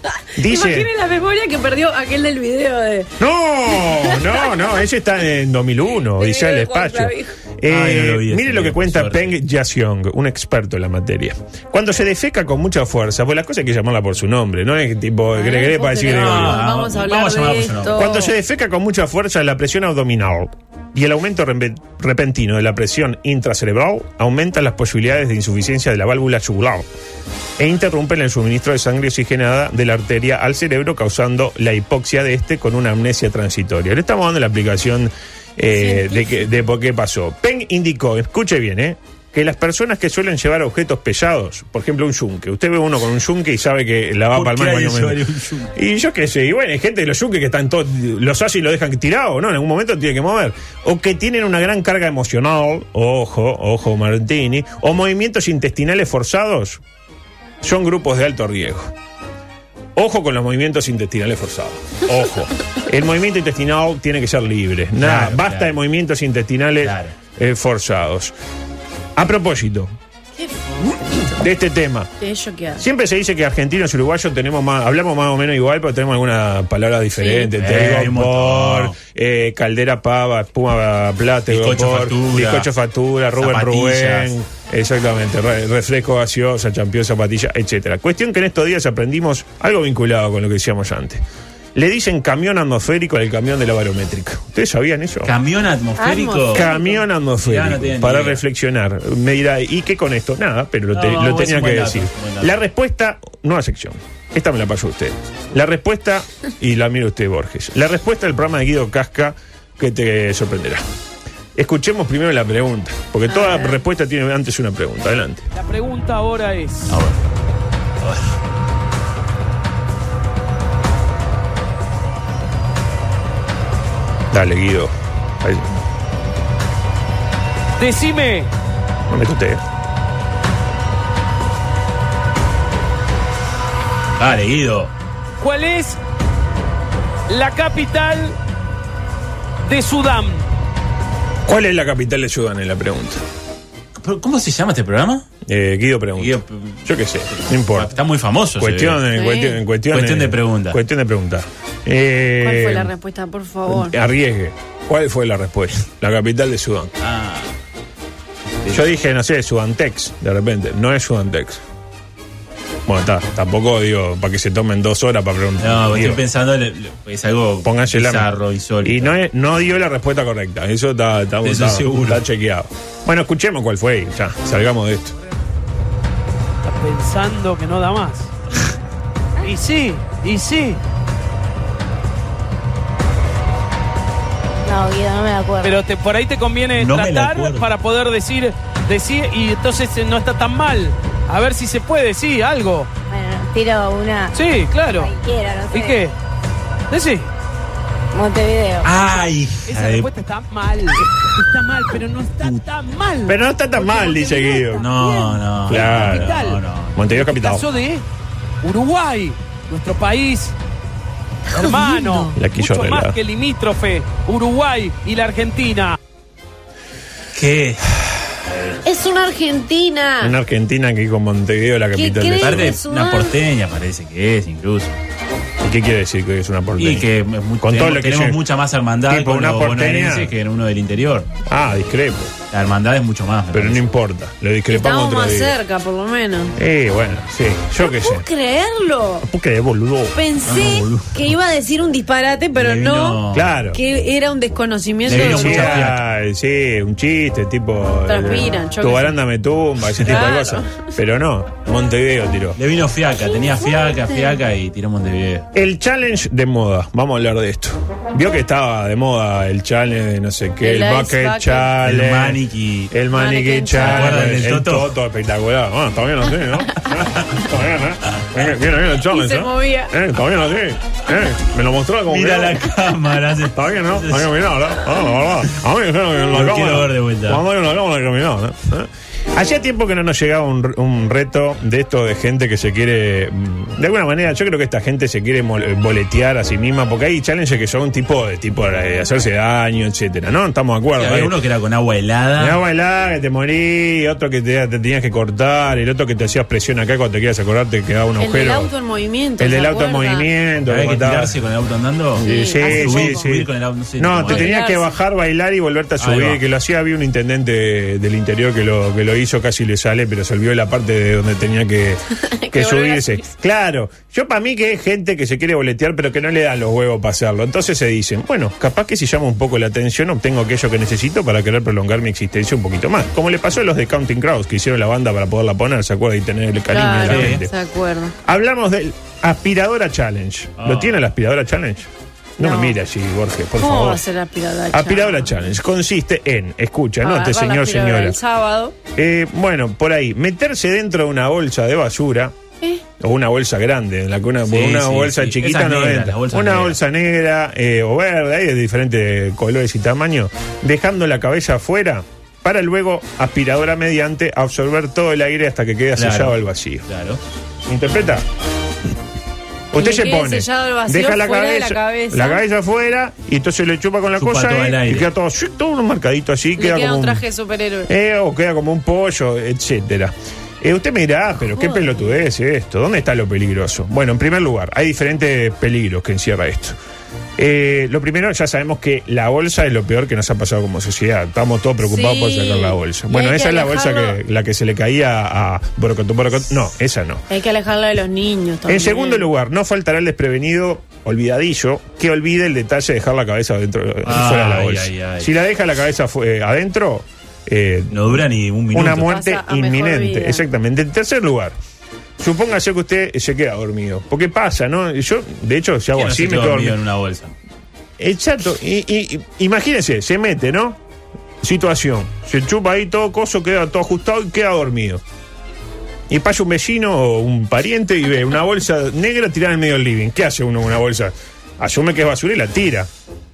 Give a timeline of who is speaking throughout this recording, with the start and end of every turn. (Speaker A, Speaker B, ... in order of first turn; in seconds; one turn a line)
Speaker A: 0.3-0.9
Speaker B: 0.4-3.1
Speaker A: 3.2-16.6
Speaker B: 3.8-4.4
Speaker B: 6.2-7.3
Speaker C: 7.7-9.3
Speaker B: 15.3-18.3
Speaker C: 16.1-18.1
Speaker A: 17.9-26.9
Speaker A: 27.6-45.2
Speaker B: 35.7-36.3
Speaker C: 44.3-45.7
Speaker A: 45.7-56.8
Speaker A: 57.6-58.9
Speaker A: 60.0-68.3
Speaker C: 65.0-65.7
Speaker C: 66.8-67.1
Speaker A: 69.2-69.9
Speaker B: 70.4-71.4
Speaker A: 71.2-72.1
Speaker B: 72.2-72.8
Speaker A: 72.8-91.2
Speaker B: 77.2-77.5
Speaker C: 77.5-78.9
Speaker C: 81.5-82.7
Speaker C: 83.4-84.3
Speaker A: 91.7-95.3
Speaker C: 95.2-96.7
Speaker B: 96.0-97.0
Speaker A: 96.5-110.8
Speaker C: 97.4-98.4
Speaker C: 100.9-102.5
Speaker A: 111.5-115.5
Speaker B: 113.3-113.8
Speaker D: 115.5-117.0
Speaker C: 116.9-117.2
Speaker A: 124.3-125.7
Speaker D: 127.8-128.5
Speaker A: 129.1-129.6
Speaker C: 134.2-134.9
Speaker D: 135.4-136.0
Speaker D: 137.3-138.4
Speaker D: 139.6-140.5
Speaker A: 141.4-143.2
Speaker C: 144.0-145.2
Speaker A: 145.4-147.9
Speaker C: 146.2-149.0
Speaker A: 148.6-152.9
Speaker B: 149.1-149.6
Speaker C: 149.9-150.8
Speaker B: 152.4-153.9
Speaker A: 153.7-156.9
Speaker C: 157.0-157.5
Speaker A: 158.7-161.6
Speaker A: 162.8-166.2
Speaker C: 165.6-169.1
Speaker A: 167.6-168.3
Speaker A: 168.8-175.1
Speaker C: 171.4-172.2
Speaker D: 176.6-178.3
Speaker D: 179.4-180.8
Speaker E: 184.6-185.8
Speaker D: 185.6-192.9
Speaker C: 186.8-187.7
Speaker E: 193.1-194.3
Speaker D: 194.3-195.1
Speaker E: 194.9-196.0
Speaker D: 195.7-196.1
Speaker D: 196.9-197.3
Speaker E: 198.1-198.9
Speaker C: 198.8-200.1
Speaker D: 199.7-208.0
Speaker A: 203.2-204.9
Speaker C: 204.8-207.0
Speaker A: 205.7-206.4
Speaker A: 206.9-207.7
Speaker D: 208.6-210.5
Speaker D: 211.5-215.9
Speaker B: 211.6-212.3
Speaker A: 212.3-213.2
Speaker C: 217.3-217.9
Speaker B: 218.8-220.3
Speaker A: 220.2-222.7
Speaker B: 221.9-223.3
Speaker C: 222.4-224.9
Speaker A: 225.6-227.1
Speaker C: 226.8-231.3
Speaker A: 227.6-228.4
Speaker A: 229.1-230.3
Speaker A: 231.4-232.3
Speaker C: 232.5-233.8
Speaker A: 233.5-235.5
Speaker B: 234.7-236.6
Speaker A: 236.6-238.2
Speaker B: 237.8-239.3
Speaker A: 239.2-240.2
Speaker B: 240.1-243.2
Speaker C: 240.4-241.2
Speaker C: 242.5-243.5
Speaker A: 243.3-243.8
Speaker B: 243.7-245.8
Speaker C: 245.1-246.0
Speaker A: 245.1-252.6
Speaker B: 248.1-249.2
Speaker B: 250.0-250.8
Speaker C: 252.6-255.4
Speaker A: 255.5-262.4
Speaker B: 260.6-261.7
Speaker C: 261.8-262.9
Speaker A: 262.9-272.6
Speaker B: 263.1-264.3
Speaker C: 263.8-264.9
Speaker B: 269.1-269.9
Speaker C: 272.1-274.3
Speaker A: 273.5-291.3
Speaker C: 276.3-277.4
Speaker C: 290.9-292.6
Speaker A: 292.4-298.7
Speaker B: 298.2-300.3
Speaker A: 299.4-301.4
Speaker C: 300.7-304.5
Speaker A: 302.1-327.5
Speaker B: 302.2-303.2
Speaker B: 304.3-304.9
Speaker C: 306.0-306.4
Speaker B: 312.2-313.3
Speaker B: 326.7-328.1
Speaker C: 327.1-327.4
Speaker A: 328.2-334.0
Speaker C: 330.6-331.0
Speaker B: 332.4-332.8
Speaker B: 333.6-335.3
Speaker A: 334.7-338.2
Speaker B: 337.0-338.7
Speaker A: 338.9-342.3
Speaker A: 343.0-356.9
Speaker C: 344.4-346.8
Speaker C: 355.9-357.2
Speaker A: 357.6-358.2
Speaker A: 359.7-367.2
Speaker B: 359.8-362.4
Speaker C: 364.2-365.1
Speaker B: 366.6-367.9
Speaker A: 367.9-376.8
Speaker B: 371.5-372.0
Speaker A: 377.4-387.2
Speaker B: 381.8-384.2
Speaker B: 387.3-389.3
Speaker A: 388.7-401.6
Speaker C: 394.0-395.3
Speaker C: 397.9-399.1
Speaker B: 399.0-400.4
Speaker A: 402.2-406.8
Speaker C: 405.9-407.3
Speaker A: 408.0-410.8
Speaker A: 411.4-415.0
Speaker A: 416.1-422.9